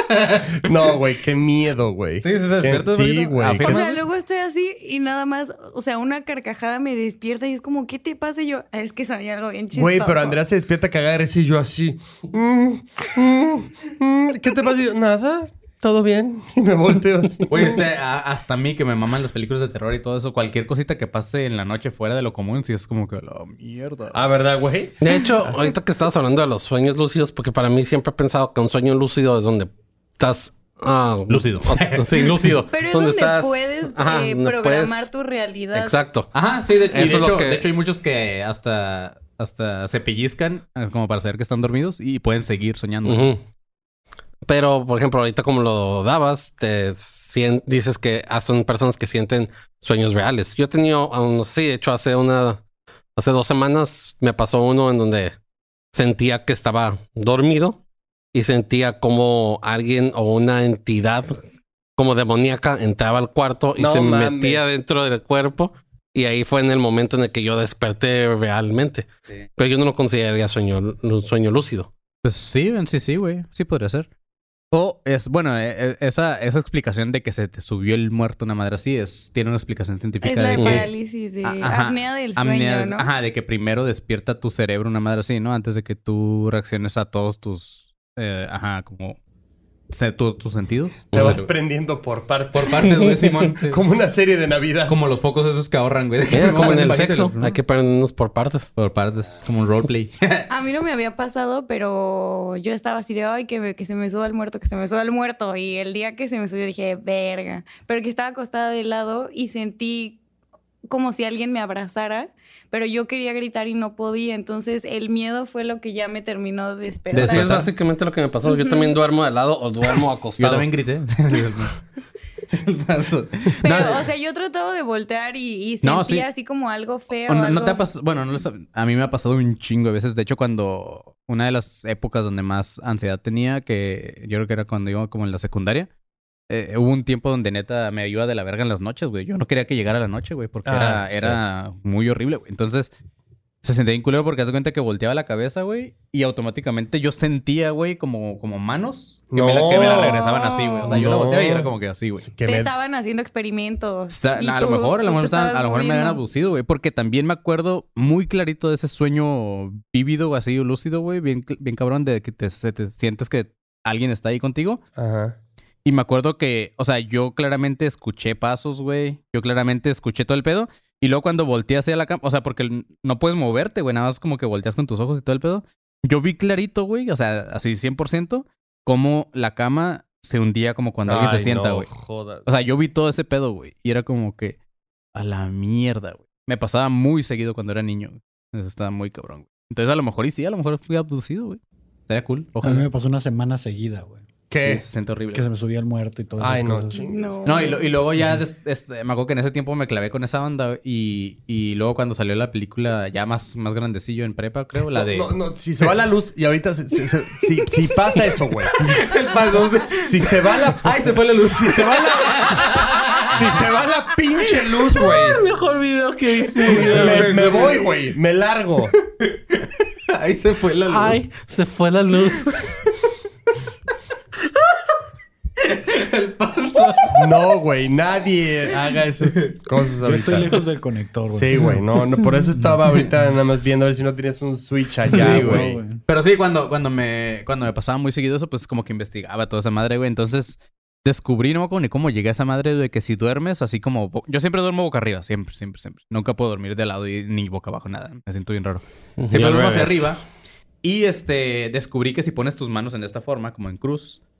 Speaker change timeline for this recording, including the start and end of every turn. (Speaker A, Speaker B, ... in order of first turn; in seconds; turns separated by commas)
Speaker A: 0.1-0.4, Speaker B: 0.6-3.8, Speaker A: 2.2-4.0, Speaker C: 3.6-10.4, Speaker B: 9.7-17.8, Speaker A: 17.5-24.2, Speaker B: 24.1-25.6, Speaker D: 25.0-35.1, Speaker A: 31.3-32.5, Speaker C: 32.7-36.0, Speaker D: 35.7-36.3, Speaker A: 36.3-43.3, Speaker D: 36.9-37.6, Speaker D: 43.0-43.4, Speaker D: 44.4-52.6, Speaker D: 53.1-55.3, Speaker D: 55.9-57.8, Speaker D: 58.3-61.4, Speaker D: 62.0-71.9, Speaker B: 63.8-64.6, Speaker A: 72.2-74.1, Speaker A: 74.7-89.2, Speaker C: 80.2-83.1, Speaker A: 89.9-91.5, Speaker B: 91.1-93.0, Speaker A: 92.5-93.8, Speaker B: 93.6-94.9, Speaker A: 94.9-97.6, Speaker D: 96.3-98.7, Speaker A: 98.8-100.5, Speaker C: 100.5-110.2, Speaker C: 110.9-117.5, Speaker A: 117.1-117.7, Speaker D: 117.2-120.7, Speaker C: 118.4-118.9, Speaker A: 120.4-121.7, Speaker A: 122.5-124.0, Speaker C: 123.6-127.8, Speaker A: 125.8-126.2, Speaker A: 127.3-135.9, Speaker A: 136.5-142.9, Speaker B: 140.7-141.4, Speaker A: 143.6-152.3, Speaker B: 149.3-150.2, Speaker C: 149.8-150.9, Speaker B: 150.8-151.7, Speaker B: 152.3-152.7, Speaker C: 152.4-156.2, Speaker A: 154.1-164.8, Speaker B: 165.0-165.3, Speaker A: 165.8-181.9, Speaker B: 181.1-182.4, Speaker A: 182.4-184.6, Speaker A: 185.1-192.8, Speaker E: 192.6-194.2, Speaker B: 194.5-194.8, Speaker A: 194.6-195.4, Speaker E: 195.3-197.0, Speaker B: 196.4-197.6, Speaker C: 196.9-197.8, Speaker A: 197.4-205.3, Speaker E: 198.2-198.4, Speaker B: 204.9-209.0, Speaker A: 208.8-213.6, Speaker B: 210.0-212.7, Speaker B: 213.3-215.4, Speaker D: 215.2-217.6, Speaker A: 216.7-217.8, Speaker B: 216.7-218.9, Speaker A: 219.2-221.2, Speaker D: 220.9-222.5, Speaker A: 225.6-227.2, Speaker B: 227.1-230.5, Speaker E: 230.0-231.8, Speaker B: 231.3-235.8, Speaker E: 235.1-236.0, Speaker A: 235.1-250.2, Speaker D: 249.2-250.1, Speaker A: 250.8-254.2